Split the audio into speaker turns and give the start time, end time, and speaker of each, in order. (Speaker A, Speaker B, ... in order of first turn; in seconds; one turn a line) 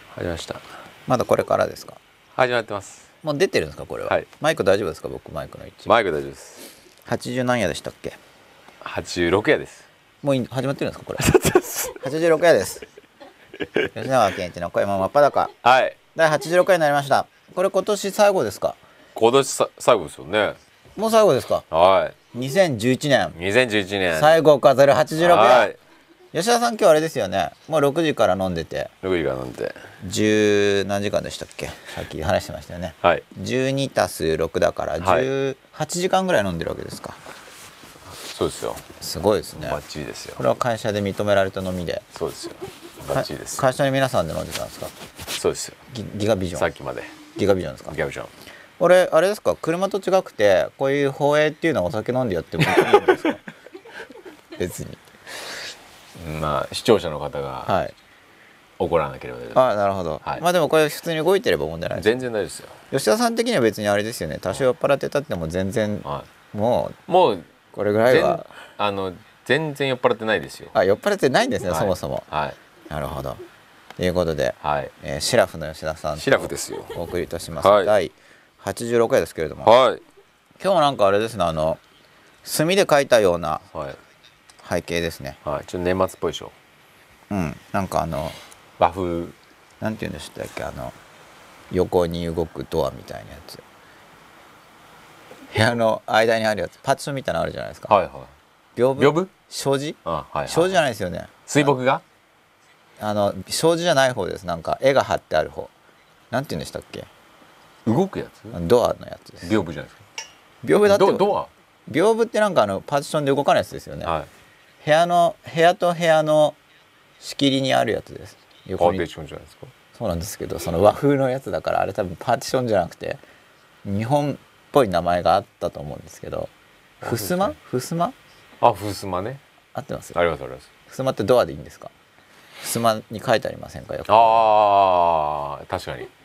Speaker A: 0.1-0.6
Speaker B: 1.1-2.0
Speaker A: 2.3-3.1
Speaker B: 3.2-5.9
Speaker A: 5.8-6.7
Speaker B: 7.0-8.2
Speaker A: 8.8-9.8
Speaker B: 10.2-11.3
Speaker A: 11.2-12.0
Speaker B: 12.0-12.8
Speaker A: 13.6-13.9
Speaker B: 13.9-15.5
Speaker A: 15.6-16.0
Speaker B: 16.1-18.8
Speaker A: 19.1-20.6
Speaker B: 21.0-21.6
Speaker A: 21.7-22.1
Speaker B: 22.3-23.4
Speaker A: 23.3-24.4
Speaker B: 24.1-25.7
Speaker A: 25.2-25.8
Speaker B: 26.3-28.9
Speaker A: 29.0-29.8
Speaker B: 30.0-37.2
Speaker A: 35.0-35.3
Speaker A: 38.1-38.8
Speaker B: 39.0-39.8
Speaker A: 39.5-40.4
Speaker B: 40.4-42.0
Speaker A: 42.1-43.7
Speaker B: 43.1-44.9
Speaker A: 45.3-45.8
Speaker B: 45.9-46.7
Speaker A: 46.5-47.1
Speaker B: 47.4-48.0
Speaker A: 47.9-48.3
Speaker B: 48.8-53.4
Speaker A: 52.6-53.4
Speaker B: 54.6-55.0
Speaker A: 56.2-57.7
Speaker B: 57.6-57.9
Speaker A: 58.8-59.6
Speaker B: 59.5-62.1
Speaker A: 61.9-62.8
Speaker B: 62.9-67.0
Speaker A: 67.1-67.5
Speaker B: 67.7-68.5
Speaker A: 68.0-70.7
Speaker B: 70.7-72.2
Speaker A: 71.7-72.6
Speaker B: 72.9-73.4
Speaker B: 74.0-79.8
Speaker A: 74.6-74.9
Speaker A: 76.2-77.0
Speaker A: 77.6-77.9
Speaker A: 79.6-80.0
Speaker B: 80.6-81.8
Speaker B: 82.4-83.6
Speaker A: 83.7-84.0
Speaker B: 84.6-85.4
Speaker A: 85.4-86.5
Speaker B: 87.3-88.4
Speaker A: 88.8-89.4
Speaker B: 89.8-91.0
Speaker B: 91.7-93.6
Speaker B: 95.5-97.9
Speaker A: 97.9-98.3
Speaker B: 98.8-101.7
Speaker A: 99.0-99.3
Speaker A: 100.0-100.8
Speaker A: 101.5-102.0
Speaker B: 103.0-105.7
Speaker B: 106.3-107.1
Speaker A: 107.8-108.6
Speaker B: 108.5-109.6
Speaker A: 109.4-110.0
Speaker B: 110.6-111.3
Speaker A: 110.8-111.5
Speaker B: 111.9-114.1
Speaker A: 114.0-114.3
Speaker B: 114.8-116.6
Speaker B: 117.2-119.0
Speaker A: 118.8-119.7
Speaker B: 119.9-123.2
Speaker B: 123.8-126.5
Speaker B: 127.0-128.1
Speaker A: 127.0-127.5
Speaker A: 128.6-129.4
Speaker B: 129.7-130.2
Speaker A: 130.1-130.7
Speaker B: 130.9-131.9
Speaker B: 132.6-134.5
Speaker A: 134.1-136.1